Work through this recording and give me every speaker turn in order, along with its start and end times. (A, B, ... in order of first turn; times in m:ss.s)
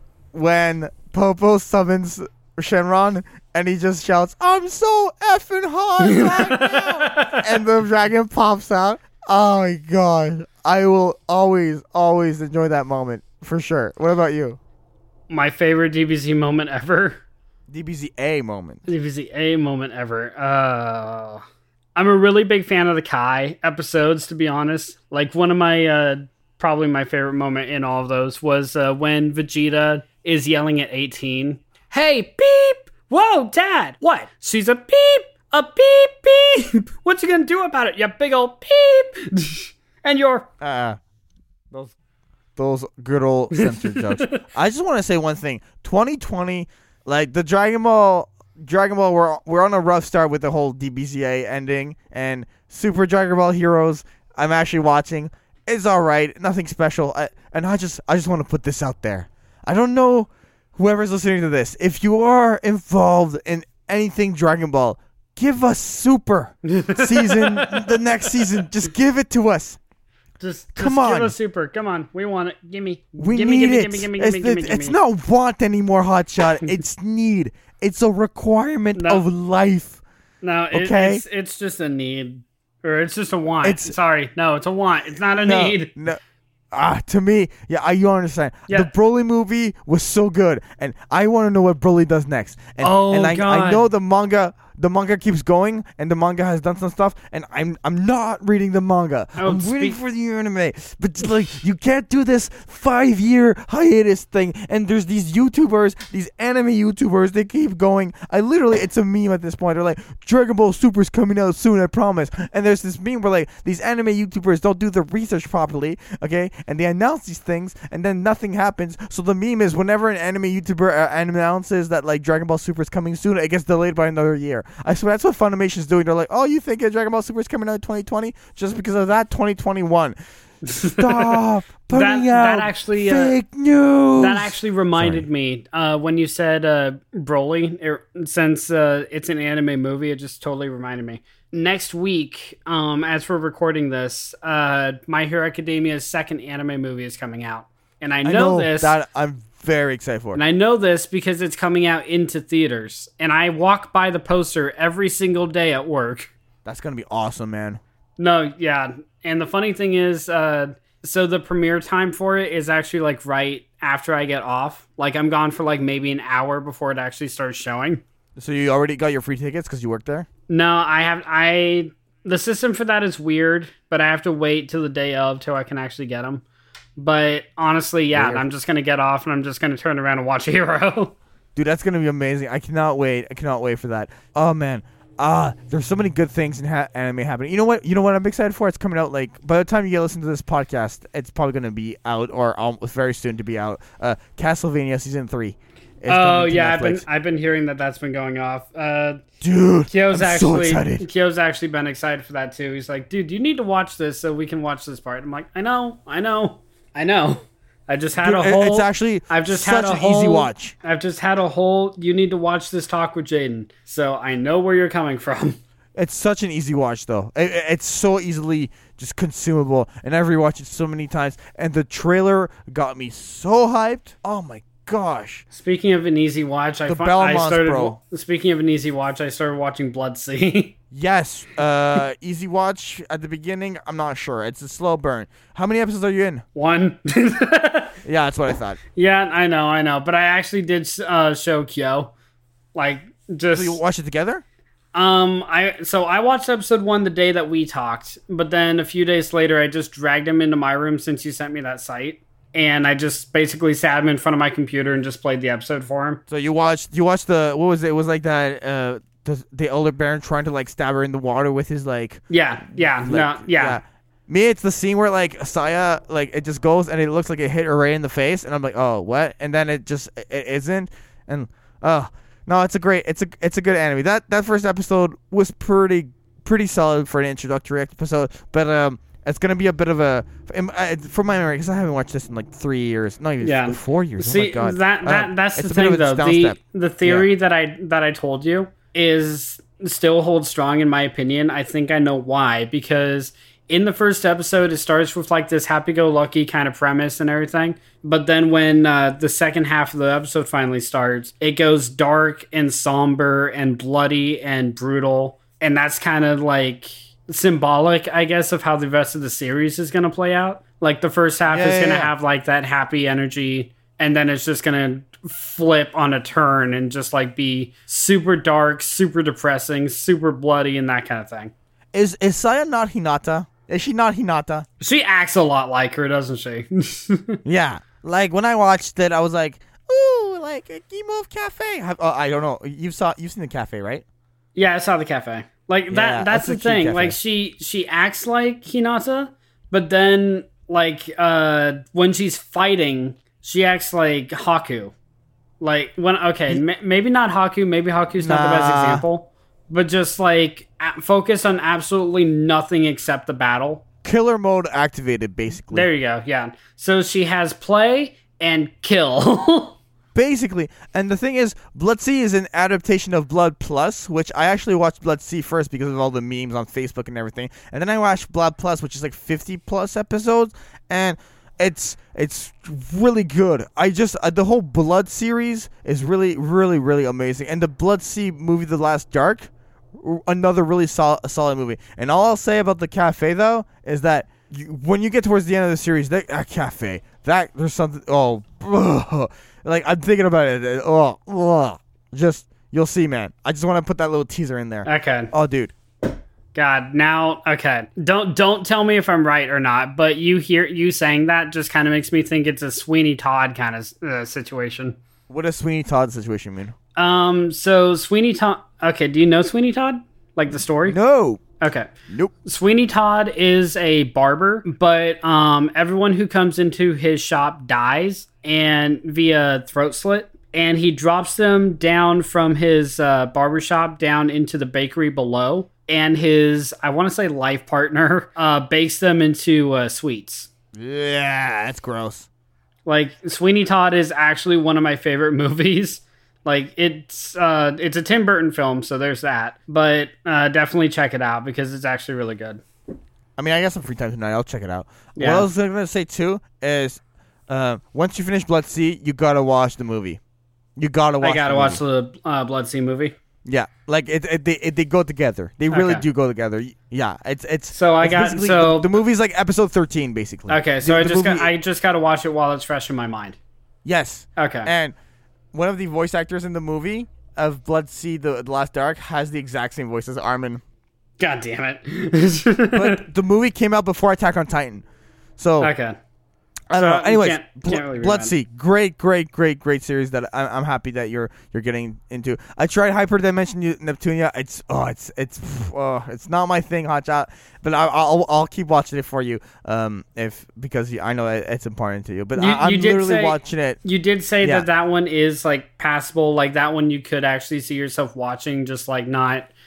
0:00.3-0:14.6 A
0:06.0-0:07.5 B
0:15.3-0:17.2 B
0:17.7-0:18.8 A
0:18.9-0:21.4 B
0:21.9-0:40.5 B
0:40.6-0:41.0 A
0:42.6-1:09.8 A
0:43.5-0:44.4 B
1:06.6-1:08.5 B
1:10.4-1:15.0 B
1:10.8-1:11.3 A
1:13.2-1:20.0 A
1:18.9-1:19.2 B
1:20.4-1:25.9 B
1:20.7-1:21.2 A
1:23.6-1:23.9 A
1:25.4-1:26.2 A
1:26.7-2:10.1 A
1:32.8-1:33.8 B
1:39.4-1:40.0 B
2:10.6-2:13.4 B
2:10.7-2:15.2 A
2:14.2-2:28.9 B
2:28.2-2:30.4 A
2:30.3-2:36.3 B
2:36.6-2:37.8 A
2:38.2-2:48.0 B
2:48.4-2:50.3 A
2:50.5-2:56.4 B
2:57.0-3:01.2 B
2:58.1-2:58.4 A
3:01.6-3:17.0 A
3:16.1-3:19.2 B
3:19.4-3:21.0 A
3:19.9-3:35.6 B
3:28.2-3:30.7 A
3:36.0-3:45.4 A
3:45.5-3:50.7 B
3:46.9-3:48.0 A
3:50.9-3:56.4 A
3:56.6-3:58.0 B
3:58.0-3:58.8 A
3:59.0-4:02.1 B
4:02.7-4:03.8 B
4:03.5-4:04.4 A
4:04.9-4:16.2 B
4:16.3-4:47.3 A
4:22.3-4:23.8 B
4:43.4-5:21.5 B
5:11.5-5:12.1 A
5:21.9-5:24.6 A
5:24.8-5:27.4 B
5:27.4-5:34.0 A
5:34.5-5:44.9 B
5:35.9-5:37.2 A
5:45.6-5:53.8 B
5:48.2-5:49.0 A
5:54.0-5:55.9 A
5:55.7-5:59.8 B
6:00.1-6:35.7 A
6:34.8-6:35.3 B
6:36.5-6:45.0 B
6:45.3-6:46.7 A
6:47.0-6:51.0 B
6:50.8-6:51.4 A
6:51.6-6:51.9 B
6:52.4-7:10.5 B
7:10.7-7:12.3 A
7:12.8-7:22.6 B
7:23.4-7:30.2 A
7:25.2-7:25.5 B
7:30.8-7:31.8 A
7:31.2-7:33.1 B
7:33.4-7:41.5 A
7:35.7-7:36.0 B
7:37.7-7:38.9 B
7:40.5-7:43.4 B
7:43.8-7:44.9 A
7:44.4-7:44.7 B
7:45.5-7:50.6 A
7:51.2-7:53.0 B
7:52.7-7:54.8 A
7:55.4-7:55.7 A
7:55.6-7:56.0 B
7:56.7-8:13.8 A
7:56.7-7:58.3 B
8:12.4-8:19.5 B